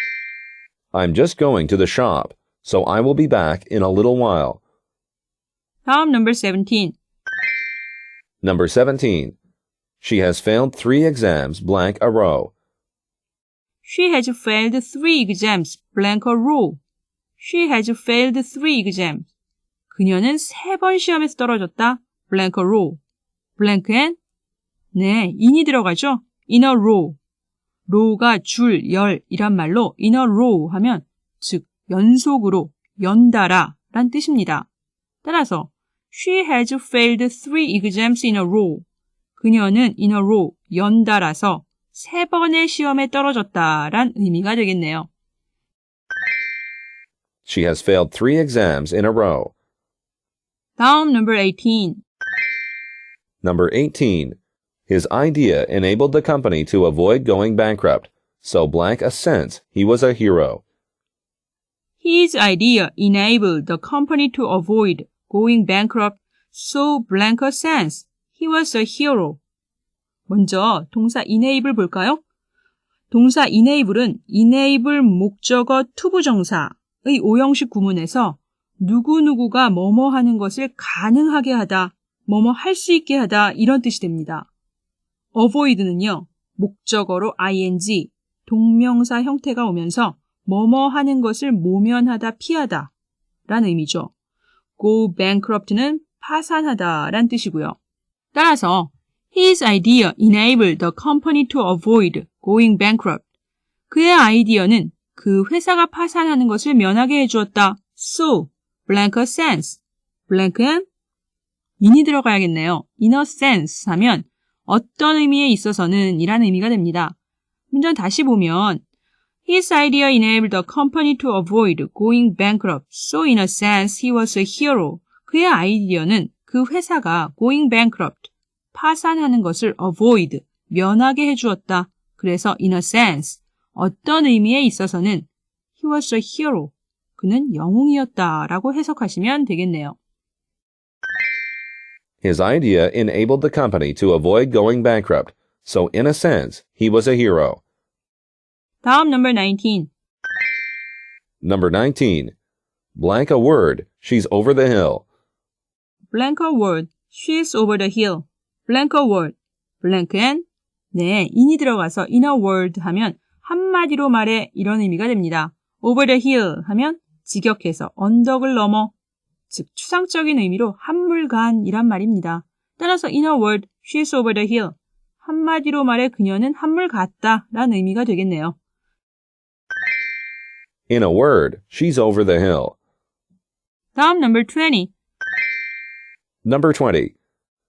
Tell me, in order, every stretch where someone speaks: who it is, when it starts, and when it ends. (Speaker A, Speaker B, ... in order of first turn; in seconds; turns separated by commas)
Speaker A: 0.9-4.6, Speaker B: 5.8-6.9, Speaker A: 8.4-9.3, Speaker A: 10.0-12.5, Speaker B: 13.8-16.8, Speaker B: 17.4-19.3, Speaker B: 19.9-23.0, Speaker B: 23.6-24.1, Speaker B: 24.9-27.2, Speaker B: 27.9-34.7, Speaker B: 35.2-38.8, Speaker B: 39.4-45.1, Speaker A: 47.4-49.5, Speaker B: 50.8-52.0, Speaker A: 53.4-60.6, Speaker B: 62.0-69.4, Speaker B: 70.3-72.2, Speaker B: 73.1-84.5, Speaker B: 85.3-92.9, Speaker B: 93.5-94.1, Speaker B: 94.8-97.8, Speaker B: 98.3-103.2, Speaker B: 103.9-110.8, Speaker B: 111.8-117.1, Speaker B: 117.7-118.8, Speaker B: 119.5-135.3, Speaker B: 135.8-139.9, Speaker A: 142.2-147.6, Speaker B: 148.8-149.9, Speaker A: 151.4-152.3, Speaker A: 152.9-155.0, Speaker B: 156.1-168.9, Speaker B: 169.5-178.6, Speaker A: 180.9-182.7, Speaker B: 183.9-184.9, Speaker A: 186.4-187.1